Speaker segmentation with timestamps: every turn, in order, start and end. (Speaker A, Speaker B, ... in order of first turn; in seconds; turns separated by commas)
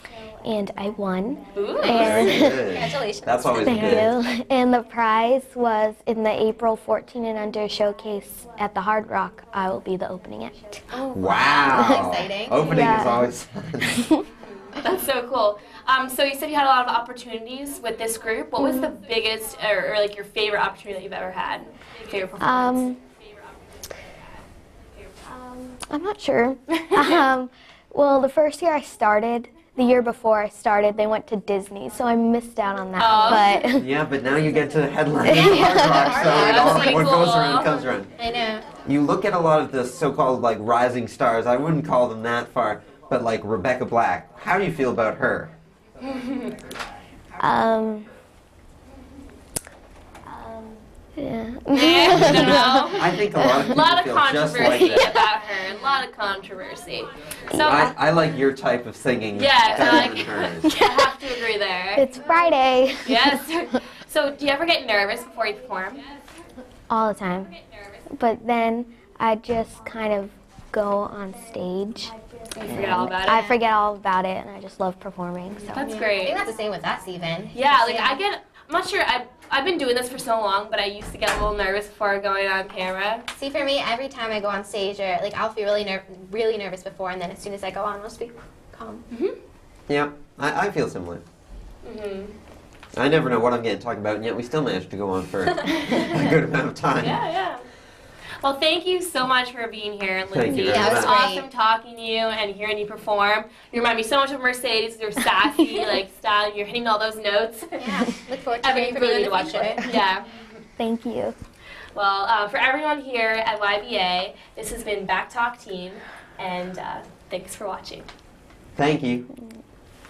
Speaker A: 0.4-2.8, Speaker B: 1.6-2.2, Speaker C: 1.8-4.1, Speaker D: 1.9-4.2, Speaker A: 3.5-10.8, Speaker C: 10.9-13.1, Speaker D: 11.1-14.0, Speaker A: 12.6-13.3, Speaker A: 13.9-14.2, Speaker B: 14.5-22.9, Speaker A: 18.6-18.9, Speaker A: 22.4-23.0, Speaker A: 25.3-34.6, Speaker B: 33.0-33.7, Speaker D: 33.7-38.1, Speaker A: 35.2-37.0, Speaker B: 35.4-37.9, Speaker C: 36.0-37.1, Speaker C: 38.2-38.7, Speaker D: 38.8-45.5, Speaker B: 46.1-46.5, Speaker A: 47.4-48.1, Speaker A: 50.3-53.6, Speaker B: 51.7-57.9, Speaker D: 52.9-55.1, Speaker A: 54.6-55.1, Speaker A: 57.5-57.9, Speaker D: 57.5-60.7, Speaker B: 59.4-62.1, Speaker A: 59.8-60.0, Speaker A: 60.6-61.1, Speaker A: 62.0-63.4, Speaker B: 63.0-66.1, Speaker A: 66.9-72.2, Speaker B: 72.5-73.5, Speaker A: 72.9-75.9, Speaker C: 73.2-73.6, Speaker B: 75.6-76.5, Speaker C: 75.8-78.2, Speaker B: 77.5-83.2, Speaker C: 83.3-89.0, Speaker B: 89.1-89.4, Speaker D: 89.9-91.2, Speaker B: 91.8-92.3, Speaker D: 92.9-97.2, Speaker B: 95.7-96.2, Speaker B: 97.0-97.6, Speaker B: 98.4-108.1, Speaker D: 100.3-101.2, Speaker C: 100.6-101.5, Speaker C: 107.8-109.8, Speaker B: 108.6-110.5, Speaker A: 110.8-111.3, Speaker B: 111.9-118.1, Speaker D: 118.8-119.3, Speaker A: 119.3-119.6